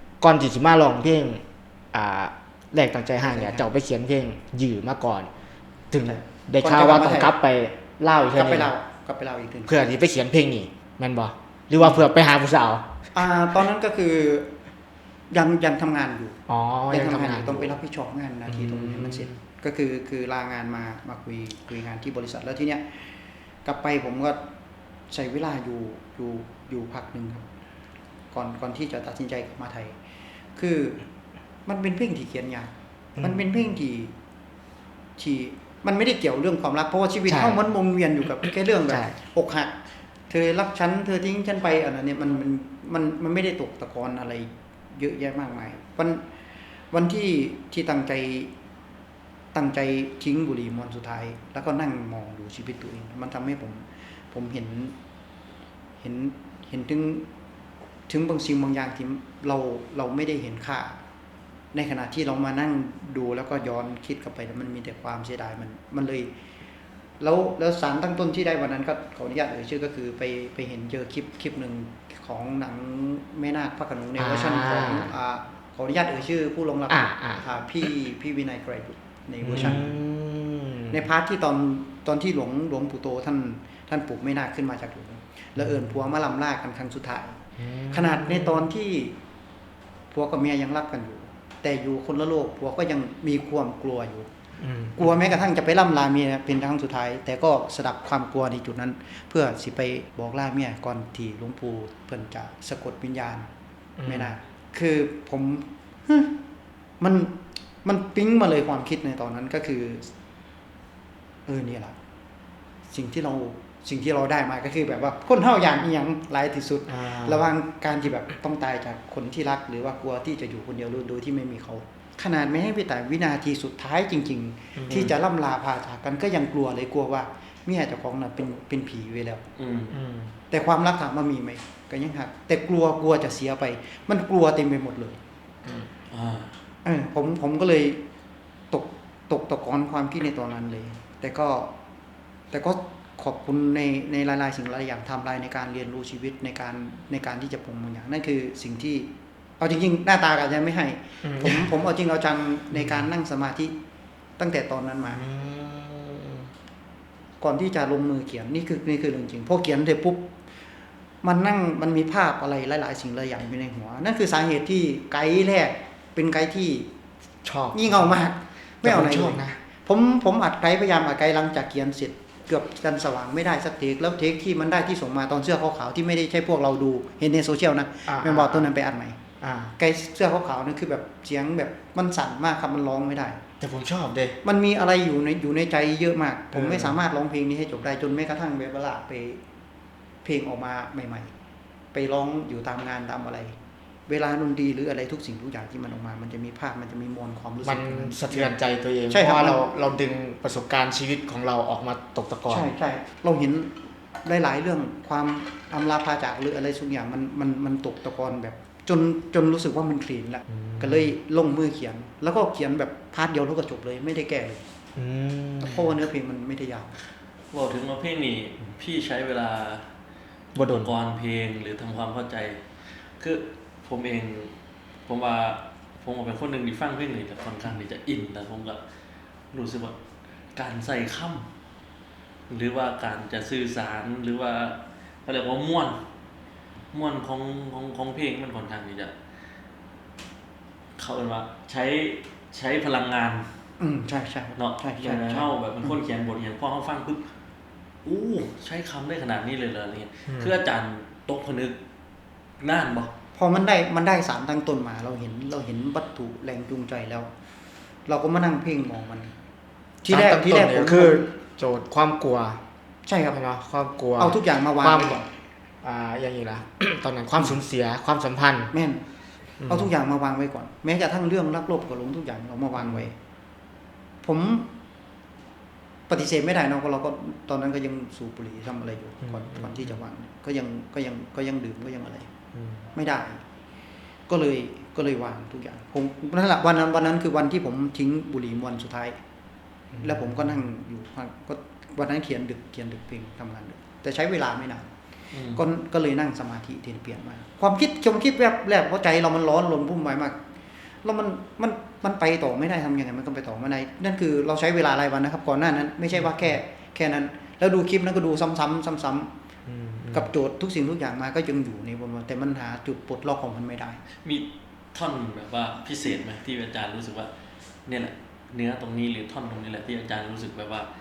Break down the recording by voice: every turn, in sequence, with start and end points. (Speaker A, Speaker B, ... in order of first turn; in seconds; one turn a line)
Speaker A: 0.2-5.3
Speaker B: 3.2-3.7
Speaker A: 5.9-8.7
Speaker B: 6.0-7.3
Speaker B: 8.4-9.8
Speaker A: 9.7-12.9
Speaker B: 11.8-12.1
Speaker B: 13.1-14.6
Speaker B: 15.3-16.4
Speaker A: 16.5-17.8
Speaker B: 16.9-23.1
Speaker A: 18.5-19.4
Speaker B: 23.6-24.5
Speaker B: 25.1-27.4
Speaker B: 28.3-30.0
Speaker B: 30.6-31.0
Speaker B: 31.7-34.1
Speaker A: 33.2-33.4
Speaker B: 35.2-39.8
Speaker A: 37.3-37.6
Speaker A: 38.9-39.2
Speaker B: 40.3-46.3
Speaker B: 46.9-48.5
Speaker B: 49.5-55.0
Speaker B: 56.0-57.3
Speaker B: 58.1-61.0
Speaker B: 61.7-66.3
Speaker B: 67.2-79.9
Speaker A: 74.2-75.1
Speaker A: 76.9-77.4
Speaker A: 79.4-81.0
Speaker B: 80.9-89.2
Speaker A: 87.6-88.6
Speaker B: 90.1-94.3
Speaker A: 94.6-95.0
Speaker B: 95.0-103.5
Speaker A: 104.0-104.3
Speaker B: 104.0-106.4
Speaker B: 107.0-110.1
Speaker B: 111.5-112.0
Speaker B: 112.9-129.4
Speaker A: 116.9-117.5
Speaker A: 124.8-125.1
Speaker C: 129.6-129.9
Speaker A: 129.9-130.3
Speaker B: 130.5-135.2
Speaker C: 136.1-136.6
Speaker B: 136.8-138.0
Speaker B: 138.7-141.7
Speaker B: 142.5-153.8
Speaker A: 151.2-151.7
Speaker A: 152.7-153.1
Speaker B: 154.4-155.2
Speaker A: 155.2-156.5
Speaker B: 157.4-160.3
Speaker B: 161.2-166.9
Speaker A: 167.4-168.2
Speaker B: 167.7-179.2
Speaker A: 168.8-169.6
Speaker A: 178.1-178.7
Speaker A: 179.4-179.7
Speaker B: 179.8-183.4
Speaker A: 183.6-184.4
Speaker B: 184.4-189.4
Speaker A: 186.5-187.0
Speaker B: 190.2-191.3
Speaker B: 191.9-198.6
Speaker A: 197.6-202.7
Speaker B: 199.1-199.7
Speaker B: 202.5-214.6
Speaker A: 210.5-211.1
Speaker A: 215.0-215.9
Speaker B: 215.6-216.9
Speaker C: 217.5-219.9
Speaker A: 220.6-220.9
Speaker C: 220.6-222.6
Speaker C: 223.2-224.6
Speaker C: 225.1-228.8
Speaker C: 229.5-230.0
Speaker C: 230.6-231.5
Speaker C: 232.5-236.0
Speaker C: 236.9-239.1
Speaker C: 241.0-243.5
Speaker B: 243.8-245.9
Speaker C: 244.6-247.3
Speaker C: 248.0-251.8
Speaker A: 250.3-250.5
Speaker C: 252.6-253.1
Speaker B: 253.3-257.3
Speaker B: 258.1-259.3
Speaker B: 260.0-261.3
Speaker A: 260.1-262.6
Speaker B: 263.1-263.4
Speaker A: 263.3-265.2
Speaker B: 264.2-265.3
Speaker A: 265.8-268.7
Speaker B: 268.7-269.0
Speaker A: 269.6-269.9
Speaker B: 269.7-273.1
Speaker A: 272.8-273.1
Speaker B: 274.2-274.7
Speaker B: 276.1-282.3
Speaker A: 279.2-279.9
Speaker A: 282.6-282.9
Speaker B: 282.9-283.4
Speaker B: 284.3-289.2
Speaker A: 289.9-290.6
Speaker B: 290.0-294.9
Speaker C: 295.3-295.6
Speaker B: 295.5-300.4
Speaker B: 301.0-309.3
Speaker A: 306.2-306.5
Speaker A: 309.7-310.3
Speaker B: 310.1-314.0
Speaker C: 314.2-317.3
Speaker C: 317.9-320.9